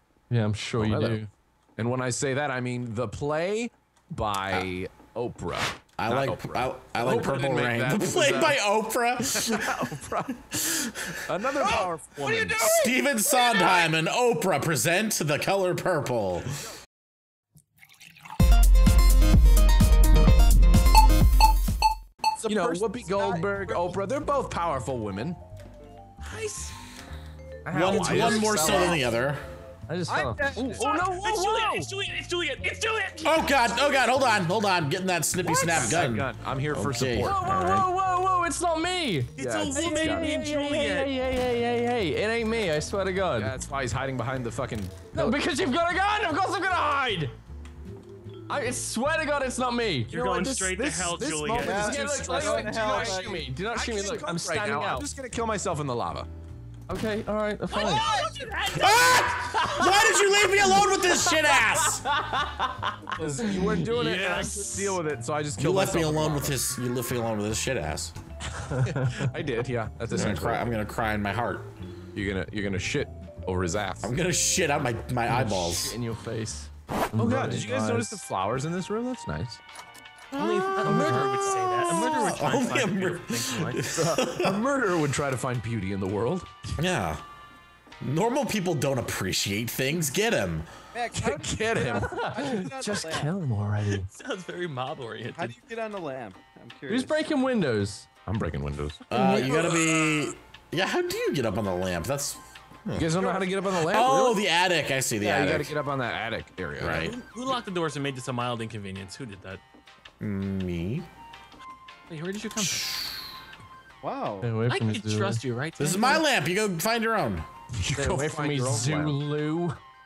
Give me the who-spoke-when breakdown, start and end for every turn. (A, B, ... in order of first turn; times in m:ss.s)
0:00.3-0:01.3 A
0:00.8-0:01.2 B
0:01.8-0:08.6 B
0:06.0-0:09.8 C
0:09.3-0:10.3 B
0:10.4-0:11.2 C
0:11.3-0:12.8 B
0:11.6-0:13.9 D
0:12.6-0:16.5 C
0:22.4-0:23.8 D
0:22.5-0:25.4 B
0:26.2-0:26.8 E
0:27.6-0:29.0 B
0:27.7-0:29.4 C
0:29.9-0:31.0 A
0:30.1-0:31.1 D
0:30.8-0:33.5 E
0:30.8-0:31.9 B
0:33.2-0:37.9 C
0:35.5-0:37.4 B
0:37.2-0:43.5 A
0:39.4-0:41.1 E
0:39.4-0:40.4 B
0:43.4-0:45.4 B
0:45.1-0:47.4 A
0:48.5-0:50.1 A
0:50.1-0:52.9 E
0:50.1-0:56.3 B
0:51.6-0:53.5 D
0:52.0-0:55.1 A
0:56.9-0:58.1 A
0:57.7-0:59.3 E
0:57.7-0:58.5 D
0:58.7-1:02.0 C
0:59.5-1:05.0 A
1:03.2-1:06.6 B
1:05.6-1:08.1 C
1:08.6-1:10.7 B
1:08.8-1:09.3 A
1:10.1-1:11.7 C
1:12.1-1:14.1 B
1:14.0-1:16.0 C
1:15.3-1:18.3 A
1:17.1-1:19.6 B
1:20.3-1:24.0 E
1:20.3-1:24.6 C
1:24.3-1:26.6 B
1:26.8-1:27.2 C
1:28.0-1:30.7 C
1:30.9-1:33.3 D
1:31.1-1:32.1 B
1:32.0-1:34.1 A
1:33.9-1:35.6 E
1:35.4-1:37.2 D
1:36.9-1:38.1 A
1:38.3-1:39.0 B
1:39.1-1:45.8 C
1:39.1-1:39.6 A
1:43.0-1:44.4 B
1:45.2-1:47.2 B
1:46.8-1:47.2 C
1:46.9-1:49.6 E
1:50.2-1:51.1 C
1:52.1-1:53.1 E
1:52.6-1:52.8 C
1:54.0-1:54.5 D
1:54.4-1:55.4 A
1:54.7-1:56.2 E
1:55.8-1:57.4 C
1:57.7-1:59.2 B
1:57.9-1:59.8 A